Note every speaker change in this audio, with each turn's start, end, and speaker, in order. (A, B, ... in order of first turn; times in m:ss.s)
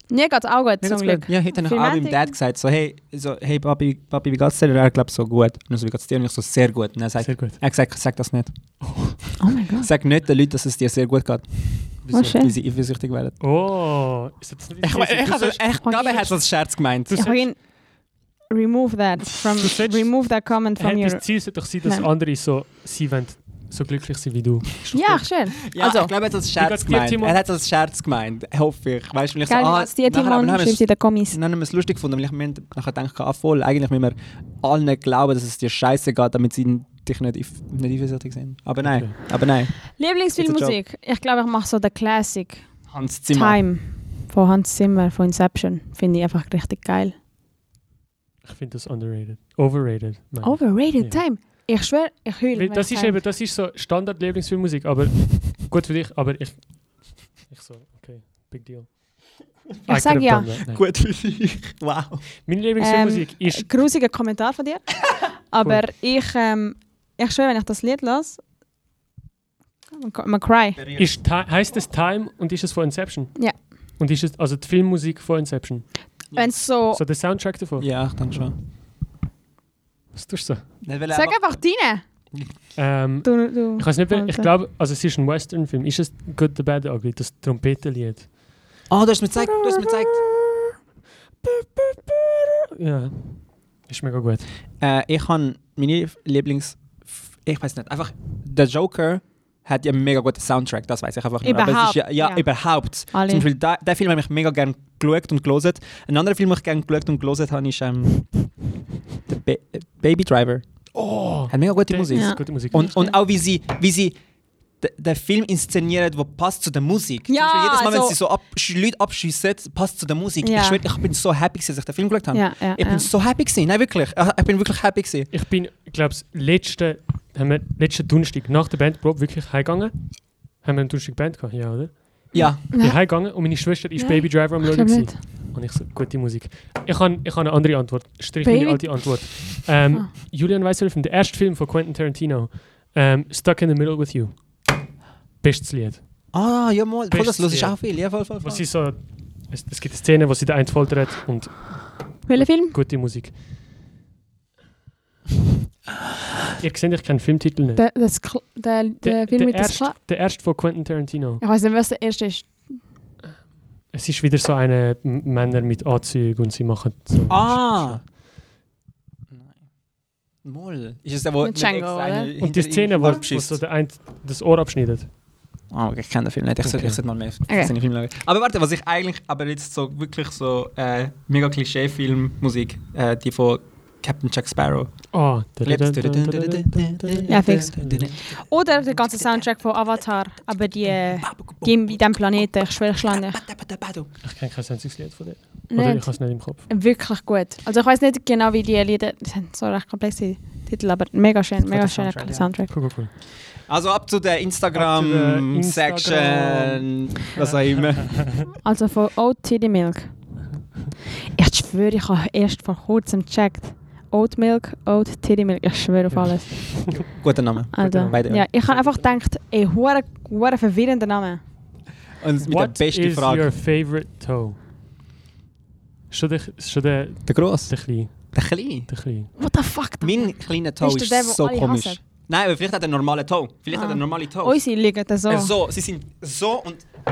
0:00.1-0:02.3 A
0:00.8-0:09.2 B
0:07.2-0:07.6 C
0:08.8-0:09.2 C
0:09.4-0:09.9 A
0:09.8-0:13.4 B
0:12.1-0:12.5 A
0:13.4-0:15.8 C
0:14.8-0:17.2 B
0:15.8-0:22.1 A
0:17.1-0:17.5 C
0:19.3-0:25.2 C
0:24.9-0:26.1 A
0:25.6-0:40.8 B
0:26.6-0:27.4 C
0:29.5-0:31.4 A
0:38.8-0:39.1 C
0:39.9-0:42.7 A
0:42.9-0:43.6 B
0:43.3-0:47.1 A
0:48.4-0:51.2 C
0:50.4-0:53.2 A
0:52.5-1:00.8 C
0:59.9-1:00.5 A
1:00.6-1:02.3 B
1:02.4-1:03.7 C
1:02.8-1:08.4 A
1:09.9-1:10.8 A
1:10.8-1:11.1 B
1:11.0-1:16.0 C
1:16.3-1:16.6 B
1:16.3-1:17.0 A
1:16.9-1:17.9 C
1:17.8-1:18.6 B
1:20.1-1:20.8 C
1:20.8-1:21.6 B
1:21.1-1:22.0 A
1:22.8-1:28.3 C
1:23.2-1:24.5 A
1:28.9-1:30.2 B
1:29.4-1:30.6 A
1:31.5-1:32.4 A
1:32.8-1:34.5 C
1:34.8-1:48.4 B
1:41.4-1:43.5 A
1:49.3-1:50.7 B
1:50.9-1:52.9 C
1:51.5-1:54.2 B
1:52.1-1:53.2 A
1:54.8-2:05.3 B
1:57.3-1:58.2 A
2:00.4-2:00.8 A
2:02.3-2:03.1 A
2:05.3-2:24.7 C
2:12.3-2:12.6 B
2:12.3-2:13.3 A
2:14.0-2:15.2 A
2:18.4-2:20.1 A
2:25.4-2:26.2 C
2:26.3-2:28.7 B
2:27.1-2:33.4 C
2:32.3-2:32.8 A
2:36.6-2:37.8 C
2:37.8-2:40.0 A
2:39.0-2:41.4 C
2:41.4-2:42.8 A
2:43.9-2:48.0 C
2:47.3-2:48.0 B
2:50.4-2:53.6 B
2:51.4-2:52.3 A
2:52.4-2:55.1 C
2:55.7-3:09.5 B
2:56.6-2:57.0 C
2:57.5-2:57.7 A
3:05.1-3:08.4 C
3:07.3-3:13.4 A
3:10.8-3:14.1 B
3:14.2-3:16.7 C
3:15.7-3:22.7 A
3:21.7-3:22.5 B
3:22.7-3:23.1 C
3:23.7-3:28.5 B
3:24.7-3:28.4 C
3:28.6-3:30.1 A
3:31.3-3:37.0 A
3:36.1-3:37.0 C
3:36.9-3:38.5 B
3:37.7-3:41.4 A
3:37.8-3:39.0 C
3:42.2-3:43.5 B
3:42.4-3:44.6 C
3:46.1-3:49.3 C
3:47.3-3:48.9 B
3:49.4-3:52.0 A
3:50.0-3:54.6 B
3:53.7-3:55.5 A
3:55.3-3:56.9 B